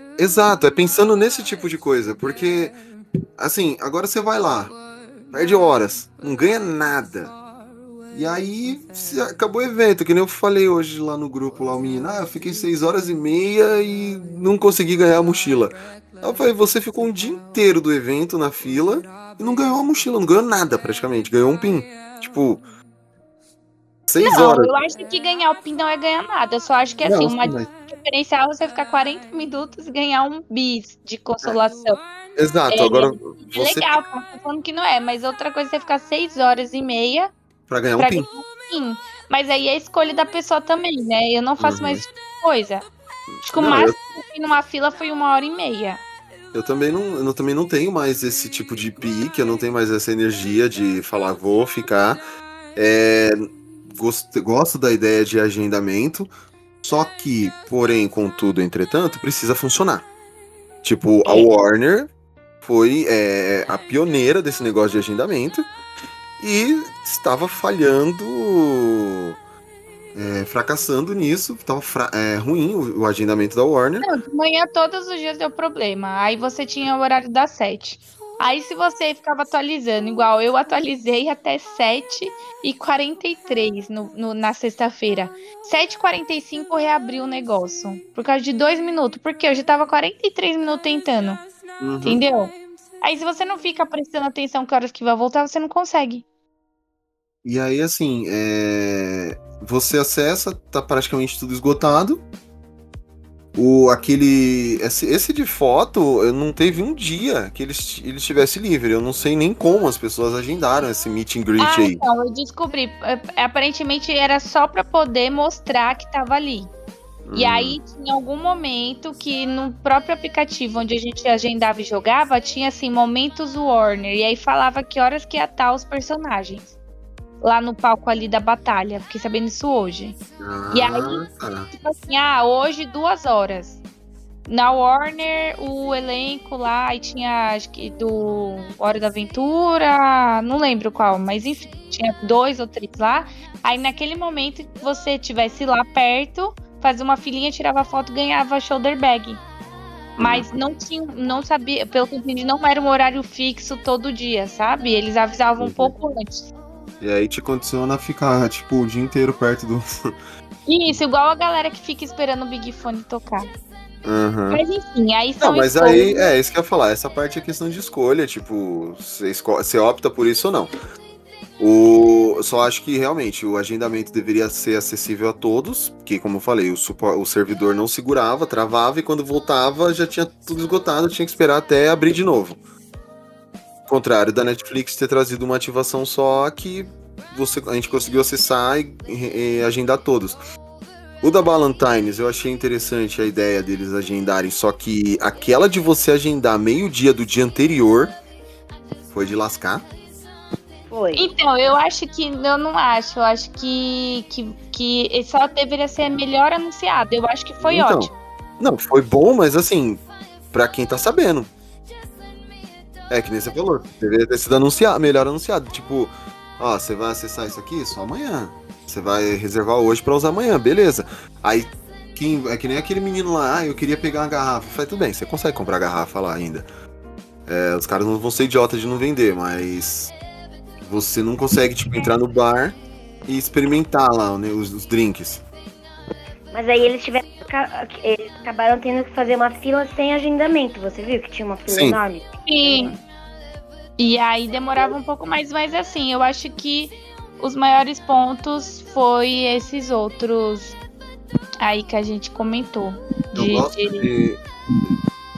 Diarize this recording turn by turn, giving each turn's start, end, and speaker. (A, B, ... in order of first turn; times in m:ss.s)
0:00.2-0:02.8 A
0:03.4-0:04.7 A
0:05.3-0:07.4 A
0:08.1-0:22.6 A
0:24.1-0:24.7 A
0:24.2-0:32.0 B
0:27.0-0:27.7 A
0:32.4-0:34.0 A
0:32.7-0:37.3 B
0:37.7-0:38.3 A
0:38.0-0:42.9 B
0:41.6-0:42.0 A
0:43.3-0:44.0 A
0:43.4-0:46.0 B
0:46.5-0:52.2 A
0:52.8-0:56.3 A
0:56.8-1:00.1 A
1:00.8-1:02.1 A
1:02.6-1:05.7 A
1:06.4-1:09.4 A
1:10.1-1:14.1 A
1:14.0-1:31.4 B
1:31.8-1:32.2 A
1:32.0-1:36.3 B
1:37.4-1:42.2 A
1:43.6-1:52.0 A
1:51.6-1:56.7 B
1:57.2-1:57.8 A
1:57.3-2:06.7 B
2:07.4-2:10.2 B
2:10.4-2:11.7 A
2:10.7-2:13.8 B
2:14.5-2:29.4 B
2:30.2-2:36.5 B
2:30.2-2:30.5 A
2:35.6-2:35.9 A
2:37.0-2:40.1 A
2:40.7-2:43.5 B
2:44.0-2:44.6 A
2:44.5-2:46.3 B
2:45.4-2:50.7 A
2:51.6-3:02.6 A
3:03.9-3:10.4 A
3:11.2-3:18.2 A
3:19.1-3:19.9 A
3:20.9-3:21.3 C
3:21.1-3:28.1 B
3:27.6-3:31.5 A
3:33.1-3:46.7 A
3:47.5-3:50.1 A
3:50.8-3:55.4 A
3:56.5-4:03.0 C
4:01.7-4:02.0 A
4:02.5-4:02.9 B
4:04.0-4:10.8 B
4:11.6-4:14.1 B
4:13.3-4:15.0 A